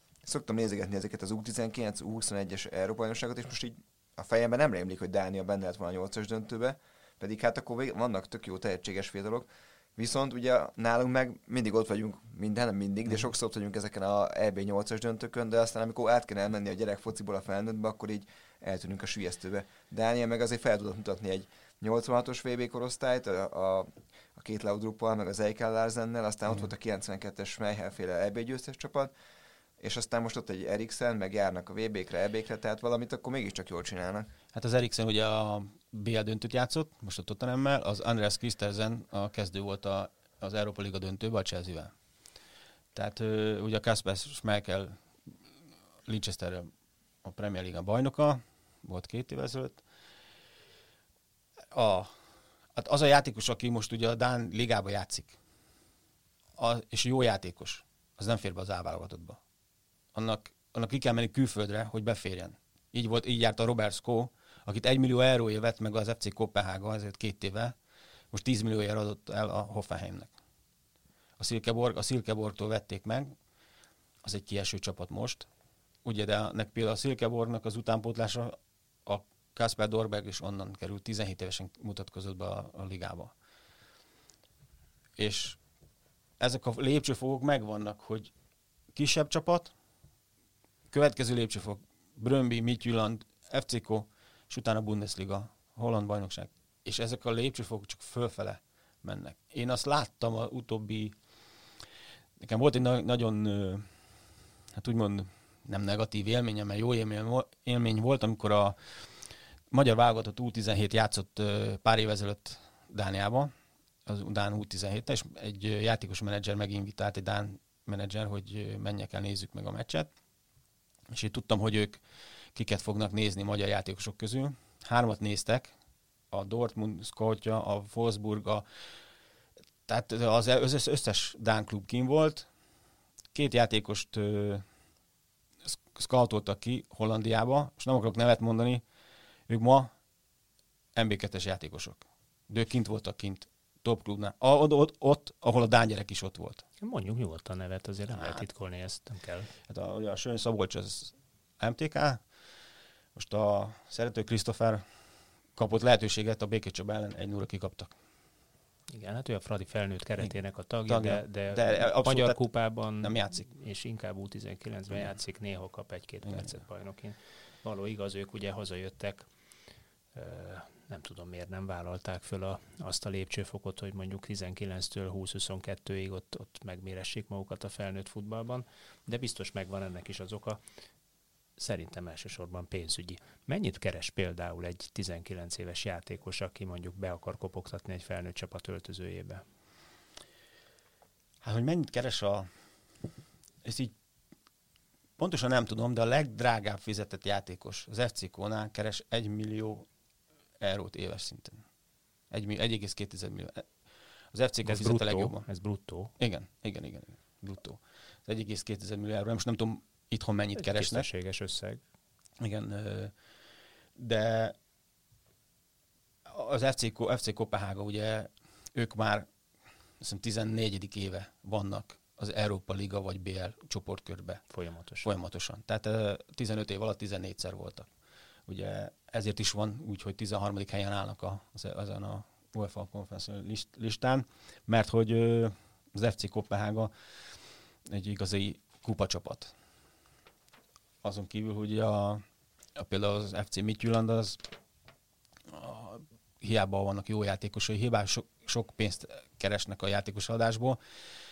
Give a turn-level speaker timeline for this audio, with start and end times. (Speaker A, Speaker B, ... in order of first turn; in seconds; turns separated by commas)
Speaker A: 0.2-29.1, Speaker A: 29.8-34.3, Speaker B: 34.5-41.9, Speaker B: 42.9-45.0, Speaker B: 46.0-46.7, Speaker B: 47.2-49.8, Speaker B: 51.7-52.1, Speaker B: 52.7-55.4, Speaker B: 56.6-59.4, Speaker B: 60.1-67.8, Speaker B: 68.3-70.3, Speaker B: 71.4-73.3, Speaker B: 74.2-75.5, Speaker B: 76.0-83.3, Speaker B: 85.2-85.6, Speaker B: 86.4-88.3, Speaker B: 88.9-89.7, Speaker B: 90.9-101.2, Speaker B: 102.4-103.9, Speaker B: 104.7-109.0, Speaker B: 109.7-113.5, Speaker B: 114.0-120.1, Speaker B: 121.1-122.0, Speaker B: 122.5-125.7, Speaker B: 126.3-128.6, Speaker B: 129.9-132.5, Speaker B: 133.3-134.6, Speaker B: 135.6-138.8, Speaker B: 139.5-139.9, Speaker B: 140.9-146.6, Speaker C: 146.8-149.5, Speaker B: 148.1-148.4, Speaker B: 149.7-152.2, Speaker B: 153.1-154.8, Speaker B: 155.6-157.9, Speaker C: 158.9-169.3, Speaker B: 160.9-162.4, Speaker B: 163.0-163.4, Speaker B: 166.2-166.6, Speaker C: 170.1-180.6, Speaker C: 181.6-189.4, Speaker B: 191.4-192.5, Speaker B: 193.6-193.9, Speaker B: 195.2-199.9, Speaker B: 200.6-201.6, Speaker B: 202.3-203.7, Speaker B: 204.3-205.4, Speaker C: 204.6-206.1, Speaker B: 206.2-211.1, Speaker C: 210.6-211.8, Speaker B: 212.4-213.1, Speaker B: 213.9-214.6, Speaker B: 216.2-219.3, Speaker B: 220.0-224.4, Speaker C: 224.5-225.1, Speaker B: 225.0-227.9, Speaker B: 228.5-236.9, Speaker B: 237.8-239.5, Speaker B: 241.0-242.2, Speaker B: 242.8-244.5, Speaker B: 245.5-250.8